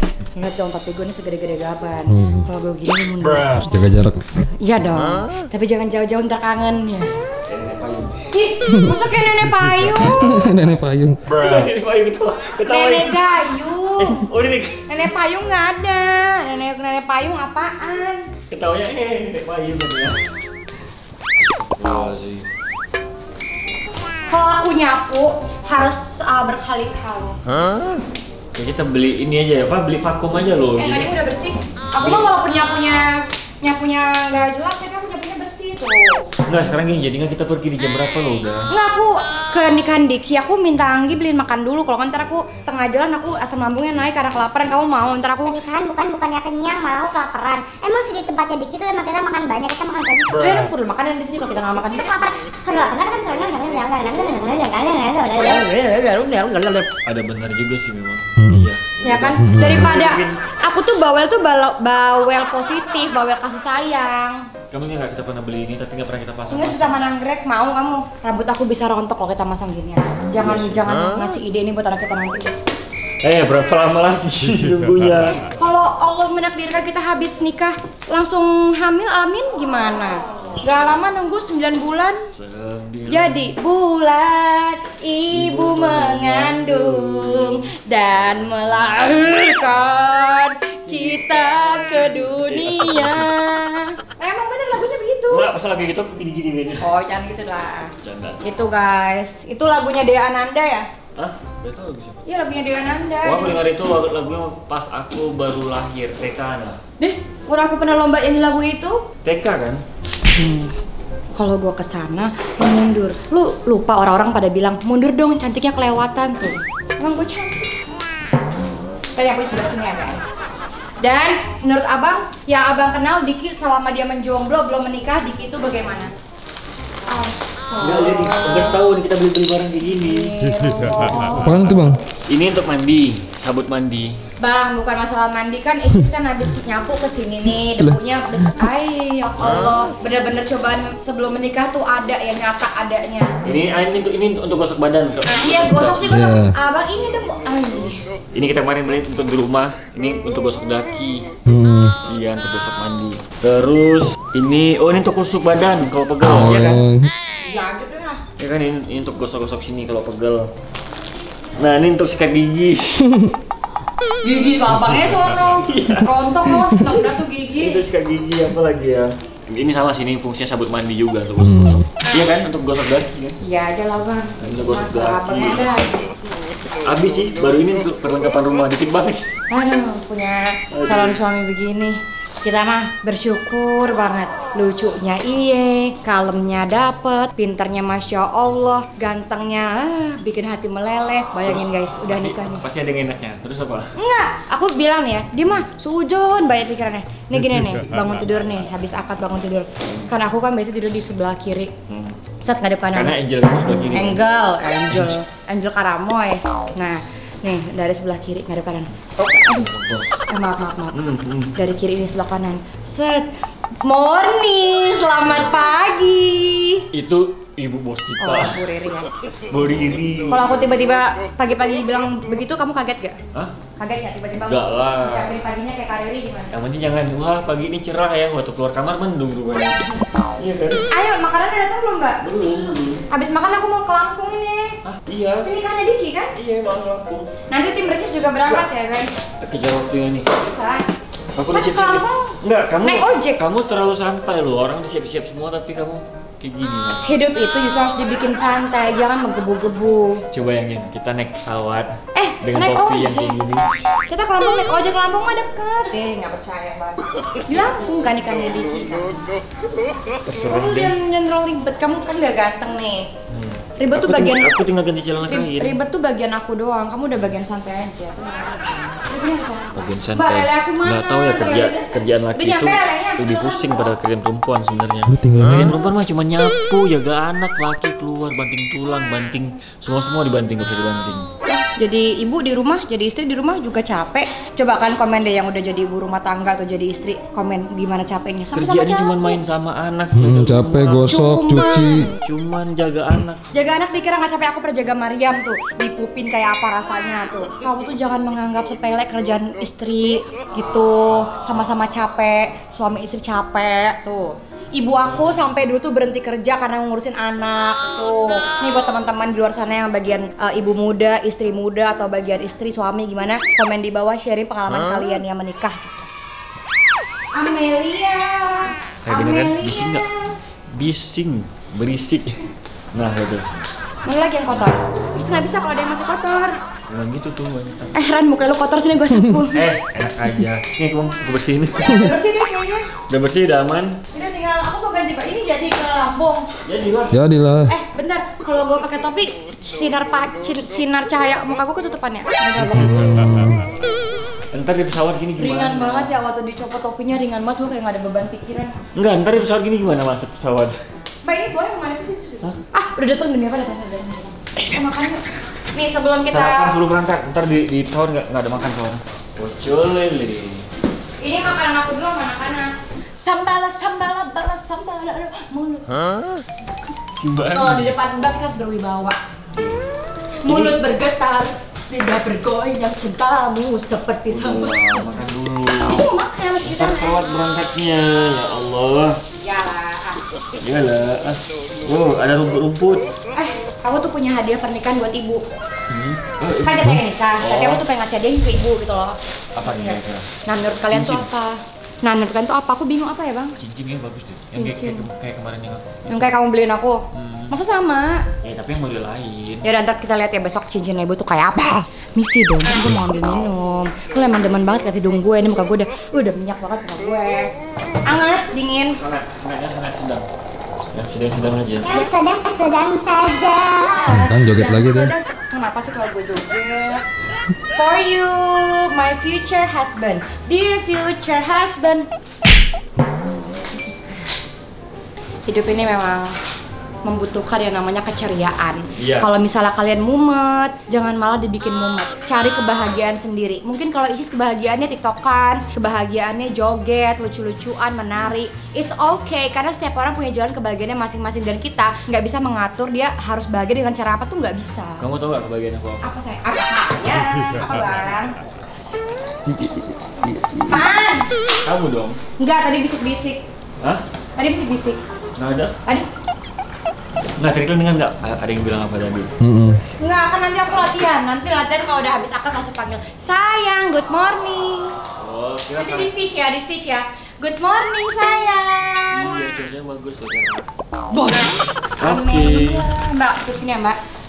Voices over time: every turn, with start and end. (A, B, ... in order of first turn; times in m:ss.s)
0:00.3-0:03.8 A
0:02.1-0:02.4 B
0:03.6-0:04.2 B
0:04.4-0:07.1 A
0:07.5-0:08.2 C
0:08.3-0:10.2 A
0:09.9-0:10.7 C
0:10.1-0:11.2 B
0:11.3-0:13.1 C
0:12.6-0:14.2 A
0:14.0-0:14.8 C
0:14.9-0:18.3 A
0:18.5-0:20.2 C
0:21.8-0:22.4 C
0:24.3-0:27.4 A
0:28.6-0:31.1 C
0:30.8-0:33.0 A
0:32.0-0:32.3 C
0:33.6-0:36.3 A
0:36.5-0:38.7 C
0:38.7-0:45.6 A
0:45.4-0:50.5 D
0:50.3-0:52.1 A
0:51.9-0:55.6 D
0:55.4-0:56.9 A
0:57.0-1:00.4 C
0:58.4-0:58.7 B
0:59.0-1:04.4 A
0:59.4-0:59.9 B
1:04.7-1:07.0 C
1:06.5-1:12.5 A
1:10.4-1:10.9 C
1:13.2-1:15.4 C
1:15.6-1:22.3 A
1:22.3-1:23.4 C
1:23.1-1:35.5 A
1:25.3-1:27.6 C
1:28.6-1:29.2 C
1:30.9-1:33.3 C
1:35.3-1:36.8 C
1:36.8-1:40.9 A
1:38.0-1:38.4 C
1:41.2-1:42.2 C
1:42.2-1:43.6 A
1:43.2-1:46.8 C
1:47.0-1:49.0 A
1:49.2-1:49.8 C
1:50.3-1:50.7 A
1:51.3-1:57.6 A
1:59.2-2:00.5 A
2:01.0-2:06.1 A
2:07.1-2:08.8 A
2:07.8-2:10.3 C
2:10.0-2:11.9 A
2:11.1-2:11.7 C
2:11.2-2:12.0 B
2:12.3-2:14.1 C
2:14.4-2:23.3 A
2:23.4-2:26.2 C
2:25.4-2:28.0 A
2:26.1-2:26.5 B
2:28.3-2:31.3 C
2:31.5-2:31.9 B
2:32.0-2:36.8 C
2:36.2-2:37.1 B
2:37.4-2:38.2 A
2:38.4-2:40.5 C
2:41.6-2:43.1 C
2:44.2-2:47.8 A
2:45.4-2:46.1 C
2:47.6-2:53.4 C
2:51.4-2:51.8 B
2:53.4-2:56.0 A
2:54.4-2:55.7 C
2:56.8-2:59.2 C
2:59.5-3:12.6 A
3:00.7-3:01.2 C
3:11.4-3:13.9 C
3:14.0-3:21.7 A
3:21.9-3:22.1 C
3:22.4-3:23.1 A
3:22.9-3:24.2 C
3:23.9-3:29.7 A
3:24.9-3:25.2 C
3:29.4-3:30.0 C
3:30.3-3:31.0 A
3:30.9-3:31.5 C
3:31.5-3:33.3 A
3:33.8-3:36.8 A
3:36.9-3:38.6 C
3:38.2-3:39.1 A
3:39.5-3:40.6 C
3:40.3-3:43.2 A
3:43.8-3:46.5 A
3:44.4-3:45.3 C
3:46.5-3:49.8 C
3:50.4-3:50.8 C
3:50.9-3:52.2 A
3:52.2-3:53.0 C
3:53.1-3:54.7 A
3:54.8-3:55.5 C
3:55.4-3:56.3 A
3:56.3-3:57.3 C
3:57.5-3:59.1 A
3:59.4-4:00.3 C
4:00.4-4:00.9 A
4:01.4-4:07.0 C
4:01.4-4:03.4 A
4:07.0-4:10.2 A
4:10.3-4:13.6 C
4:12.1-4:13.4 A
4:14.1-4:19.4 A
4:20.2-4:20.9 C
4:20.3-4:23.1 A
4:23.3-4:25.8 C
4:23.8-4:24.5 A
4:25.3-4:33.9 A
4:29.7-4:41.3 C
4:35.1-4:35.8 B
4:41.5-4:49.4 A
4:48.5-4:51.2 C
4:50.1-4:52.1 B
4:51.0-4:52.2 A
4:52.2-4:53.4 C
4:53.5-5:16.1 A
5:17.3-5:20.1 A
5:19.0-5:20.0 C
5:20.7-5:22.4 C
5:22.9-5:23.4 C
5:24.0-5:26.6 A
5:26.9-5:28.0 C
5:27.9-5:29.6 A
5:29.5-5:32.0 C
5:31.9-5:32.9 A
5:33.1-5:34.0 C
5:34.1-5:36.5 A
5:36.6-5:37.2 C
5:37.1-5:37.7 B
5:37.7-5:43.0 A
5:42.6-5:43.6 B
5:44.5-5:46.1 C
5:45.4-5:48.7 A
5:49.0-5:50.8 C
5:51.2-5:55.2 A
5:55.7-5:56.7 A
5:56.3-6:00.6 C
6:01.2-6:05.9 A
6:07.2-6:07.9 C
6:07.5-6:09.2 A
6:09.5-6:09.8 C
6:10.4-6:15.0 A
6:10.4-6:10.8 C
6:14.3-6:16.0 C
6:15.8-6:17.3 A
6:16.6-6:19.2 C
6:19.4-6:20.2 A
6:20.6-6:23.1 C
6:23.3-6:25.4 A
6:25.9-6:27.8 C
6:26.6-6:33.6 A
6:29.6-6:30.3 C
6:30.9-6:31.2 C
6:33.6-6:36.3 C
6:34.6-6:35.0 A
6:36.1-6:38.2 A
6:37.1-6:37.5 C
6:38.4-6:39.6 C
6:39.6-6:47.5 A
6:48.0-6:49.0 A
6:49.0-6:50.3 C
6:50.9-6:51.8 C
6:51.8-6:54.1 D
6:54.0-6:57.0 A
6:54.2-6:55.1 B
6:57.7-7:02.1 A
7:05.5-7:06.3 A
7:07.0-7:25.0 A
7:09.0-7:09.3 C
7:25.0-7:26.1 C
7:26.0-7:28.3 A
7:30.7-7:31.3 A
7:31.6-7:32.2 C
7:32.4-7:33.4 A
7:34.4-7:35.0 A
7:35.4-7:35.7 C
7:37.4-7:39.3 C
7:39.4-7:39.8 B
7:40.0-7:45.0 A
7:45.2-7:46.1 C
7:45.8-7:49.2 A
7:49.1-7:50.7 C
7:51.1-7:54.0 A
7:52.0-7:52.8 C